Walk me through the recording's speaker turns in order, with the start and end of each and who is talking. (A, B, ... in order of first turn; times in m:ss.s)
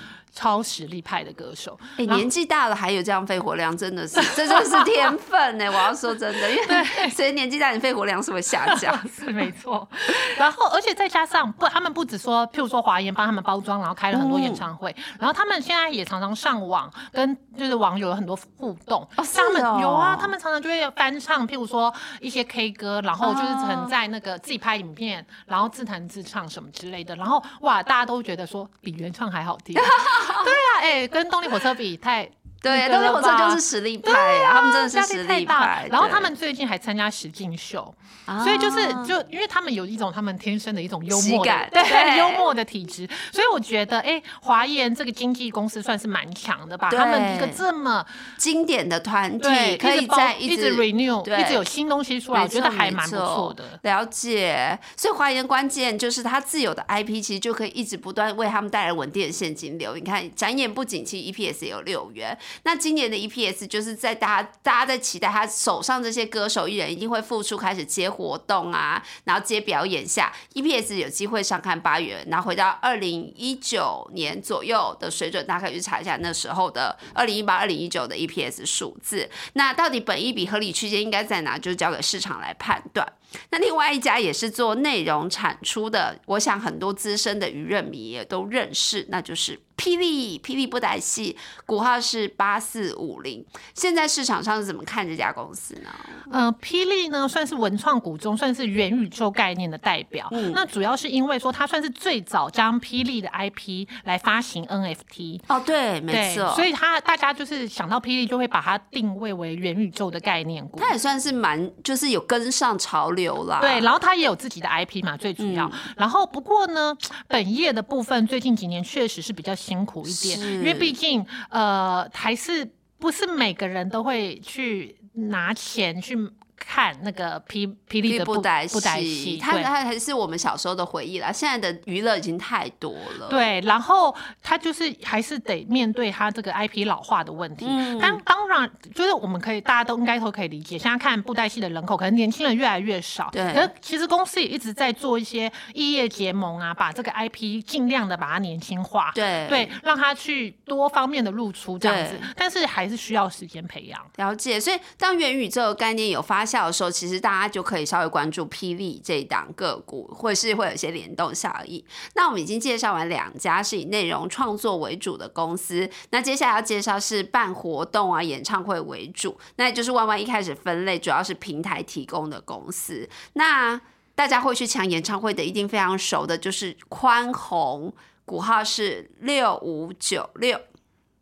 0:00.3-0:02.3 A
0:02.0-0:09.1 B
0:04.2-0:05.1 A
0:06.6-0:07.1 A
0:08.6-0:48.1 A
0:14.1-0:14.6 B
0:19.2-0:20.3 B
0:23.2-0:23.9 B
0:29.7-0:30.6 B
0:32.6-0:36.3 B
0:38.3-0:39.1 B
0:41.1-0:42.4 B
0:46.9-0:47.6 B
0:48.4-0:51.6 B
0:49.4-0:53.8 A
0:52.3-1:36.2 B
1:36.3-1:45.4 A
1:40.3-1:40.6 B
1:45.5-1:46.7 B
1:46.1-1:50.9 A
1:50.8-1:53.9 B
1:53.6-2:09.7 A
1:55.4-1:55.8 B
2:00.0-2:00.9 B
2:08.1-2:13.4 B
2:13.3-2:34.1 A
2:17.6-2:18.2 B
2:23.3-2:23.7 B
2:29.1-2:29.8 B
2:31.8-2:32.3 B
2:34.2-3:00.6 B